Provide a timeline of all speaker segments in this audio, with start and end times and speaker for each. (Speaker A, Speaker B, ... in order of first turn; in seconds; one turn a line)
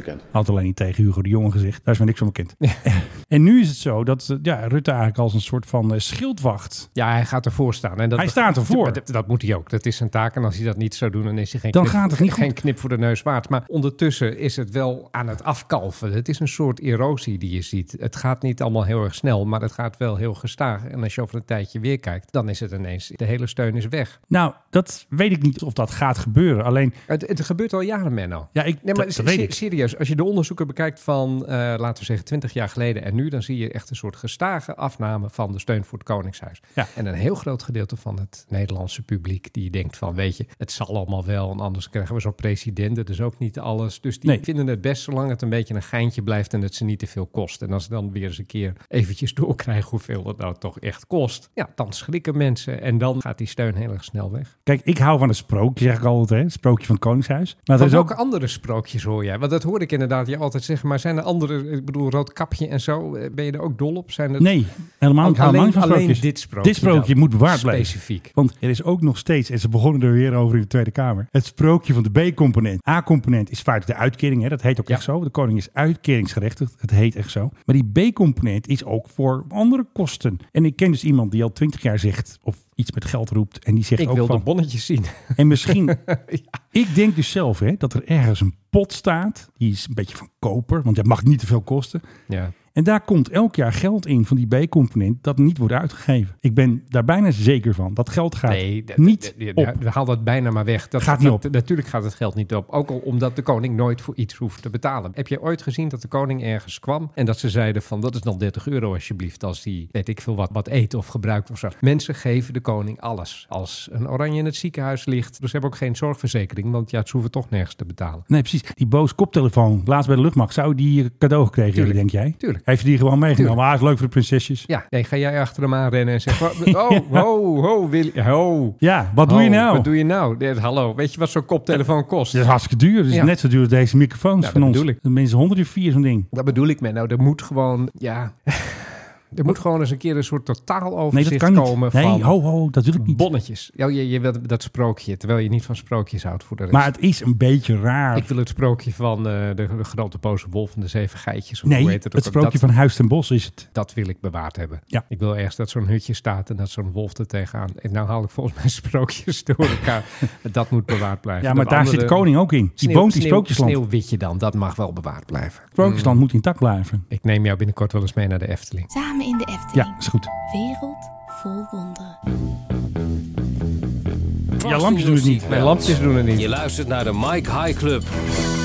Speaker A: 0.3-6.9
Speaker B: 7.0-24.2
Speaker A: 8.2-9.0
Speaker A: 11.7-12.5
Speaker A: 24.3-27.0
Speaker B: 27.1-54.5
Speaker A: 28.6-29.6
Speaker A: 54.7-58.1
Speaker B: 57.7-64.5
Speaker A: 64.4-84.4
Speaker B: 65.2-68.3
Speaker B: 84.0-86.6
Speaker A: 85.4-86.0
Speaker A: 86.7-92.0
Speaker B: 92.3-92.5
Speaker A: 92.7-99.8
Speaker B: 98.5-118.3
Speaker A: 101.0-101.4
Speaker A: 118.3-124.7
Speaker B: 121.7-122.6
Speaker B: 124.7-132.4
Speaker A: 126.3-127.2
Speaker A: 128.8-129.9
Speaker A: 132.3-136.3
Speaker B: 134.4-135.0
Speaker B: 136.3-142.3
Speaker A: 141.1-143.2
Speaker B: 143.0-146.9
Speaker A: 146.7-148.3
Speaker B: 148.1-152.7
Speaker A: 151.7-153.7
Speaker B: 153.7-162.3
Speaker A: 161.4-163.8
Speaker B: 162.8-166.2
Speaker A: 165.8-167.0
Speaker B: 167.1-168.9
Speaker C: 168.9-172.2
Speaker A: 169.8-170.3
Speaker A: 174.6-176.0
Speaker D: 174.6-175.8
Speaker B: 175.4-176.5
Speaker D: 176.3-178.2